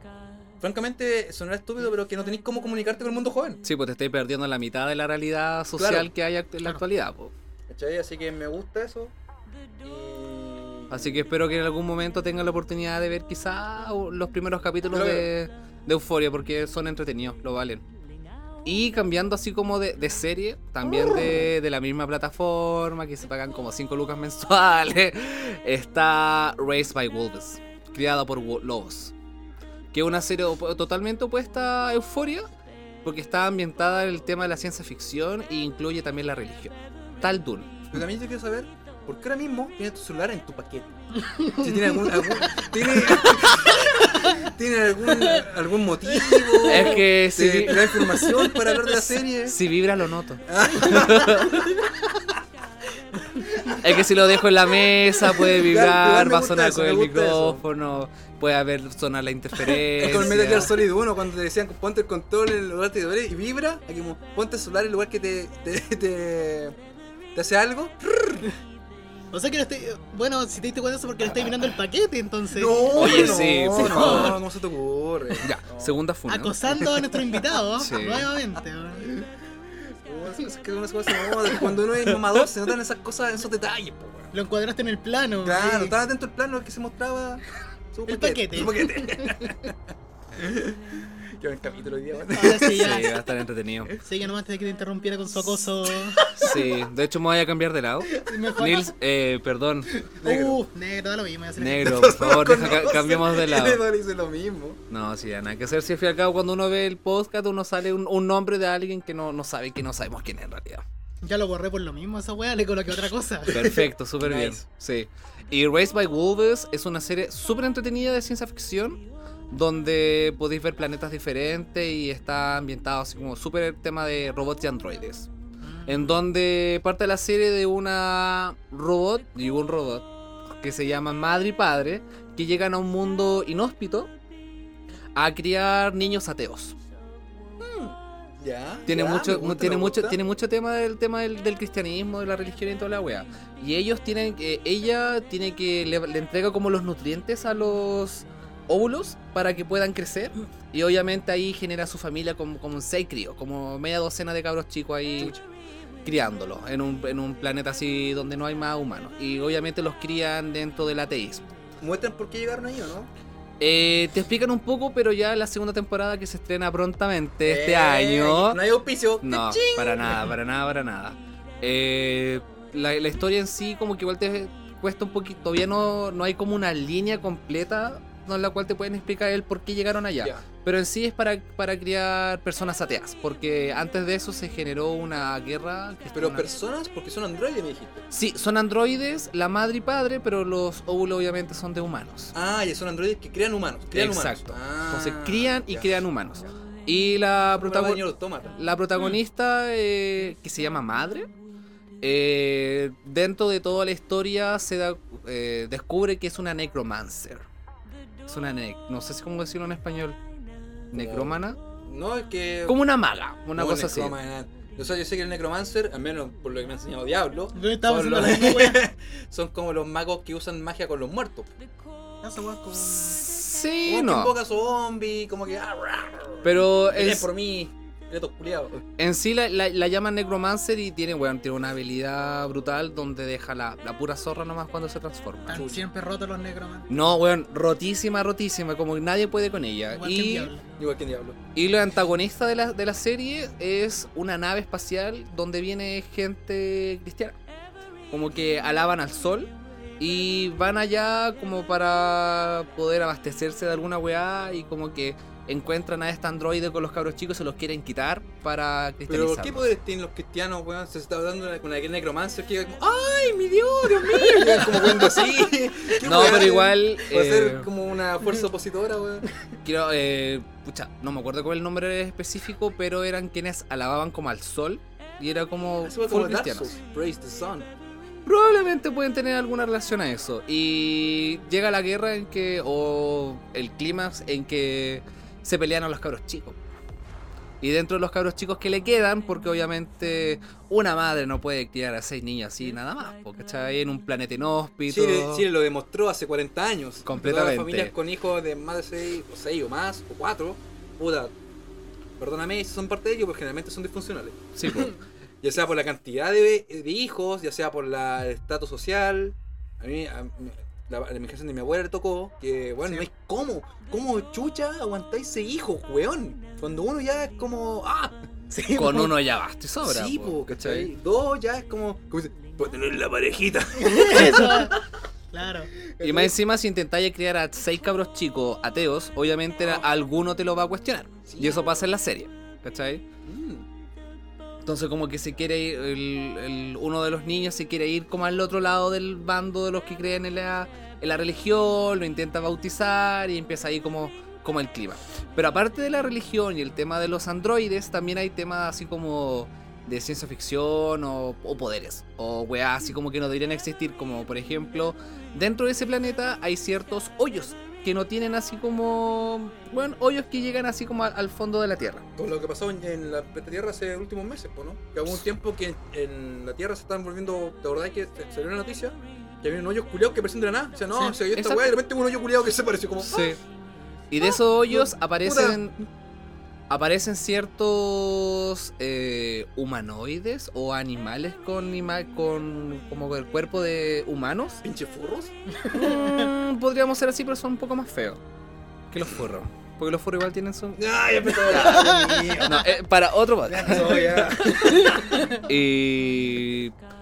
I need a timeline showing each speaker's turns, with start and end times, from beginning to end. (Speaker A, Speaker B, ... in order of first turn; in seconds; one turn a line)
Speaker A: 0.6-3.6
Speaker B: 3.6-7.3
Speaker A: 5.8-6.1
Speaker A: 7.7-9.1
Speaker A: 9.8-11.2
Speaker B: 10.9-17.8
Speaker A: 14.9-15.3
Speaker B: 18.6-29.1
Speaker A: 21.0-21.5
Speaker B: 29.9-32.5
Speaker B: 33.0-38.0
Speaker A: 37.9-40.9
Speaker C: 41.4-44.3
Speaker A: 41.5-49.6
Speaker C: 45.1-45.4
Speaker C: 46.2-47.0
Speaker B: 46.7-47.9
Speaker C: 47.9-49.0
Speaker B: 49.4-51.8
Speaker A: 50.5-51.8
Speaker A: 53.4-54.0
Speaker B: 53.8-60.7
Speaker A: 55.2-57.6
Speaker A: 60.0-66.8
Speaker A: 67.3-68.5
Speaker C: 69.3-74.4
Speaker A: 72.5-76.0
Speaker B: 72.9-74.4
Speaker B: 75.4-76.6
Speaker C: 76.3-79.2
Speaker B: 77.8-78.3
Speaker A: 80.0-84.3
Speaker C: 81.1-81.7
Speaker C: 84.3-85.9
Speaker A: 85.4-89.8
Speaker C: 88.1-89.7
Speaker A: 90.3-93.0
Speaker C: 92.3-93.2
Speaker B: 92.6-93.9
Speaker C: 94.0-96.4
Speaker A: 95.9-96.6
Speaker B: 96.3-99.9
Speaker C: 98.2-98.9
Speaker A: 98.2-98.5
Speaker A: 99.9-100.6
Speaker C: 100.2-102.1
Speaker B: 101.6-103.8
Speaker A: 101.8-104.8
Speaker B: 104.9-110.8
Speaker C: 111.2-113.8
Speaker B: 113.5-125.3
Speaker A: 114.2-114.6
Speaker C: 125.6-126.2
Speaker B: 125.9-130.1
Speaker B: 130.6-134.1
Speaker B: 135.1-136.8
Speaker A: 137.6-140.2
Speaker B: 138.8-155.4
Speaker B: 156.0-161.5
Speaker A: 161.8-163.1
Speaker B: 163.6-168.6
Speaker A: 167.4-170.3
Speaker B: 169.2-186.5
Speaker A: 180.2-180.4
Speaker A: 186.1-188.1
Speaker B: 188.1-192.3
Speaker A: 192.3-196.0
Speaker B: 193.9-201.3
Speaker A: 197.5-198.5
Speaker B: 202.0-207.5
Speaker B: 208.3-210.2
Speaker B: 210.9-211.6
Speaker A: 210.9-212.8
Speaker B: 212.7-214.2
Speaker A: 213.5-221.5
Speaker C: 217.5-218.8
Speaker C: 222.2-223.2
Speaker B: 222.8-224.3
Speaker A: 223.8-228.8
Speaker B: 226.4-227.3
Speaker B: 229.0-235.7
Speaker C: 235.5-236.9
Speaker A: 235.5-235.8
Speaker B: 236.9-240.5
Speaker C: 239.9-240.6
Speaker A: 240.8-241.4
Speaker B: 241.5-247.4
Speaker B: 248.1-259.7
Speaker A: 259.1-269.3
Speaker C: 264.1-265.1
Speaker B: 266.0-267.7
Speaker B: 269.6-276.8
Speaker A: 275.8-277.7
Speaker B: 278.2-286.6
Speaker B: 287.6-295.5
Speaker A: 294.9-301.3
Speaker B: 297.0-297.9
Speaker A: 302.2-318.2
Speaker B: 304.6-304.9
Speaker C: 318.5-319.1
Speaker B: 318.7-320.9
Speaker A: 319.8-324.9
Speaker C: 323.8-324.8
Speaker C: 325.3-325.7
Speaker A: 325.8-326.3
Speaker B: 326.0-333.0
Speaker A: 329.6-329.8
Speaker A: 331.3-331.9
Speaker A: 333.2-333.6
Speaker B: 334.6-362.1
Speaker A: 362.2-373.4
Speaker C: 370.9-371.2
Speaker B: 371.3-371.7
Speaker B: 373.0-373.4
Speaker B: 374.1-375.8
Speaker A: 374.2-375.6
Speaker B: 376.7-384.6
Speaker A: 384.6-385.3
Speaker C: 385.6-386.3
Speaker B: 385.7-388.2
Speaker B: 388.9-390.8
Speaker A: 390.8-392.7
Speaker C: 391.4-392.6
Speaker B: 391.4-394.3
Speaker A: 393.4-395.4
Speaker C: 394.4-395.4
Speaker B: 395.4-396.7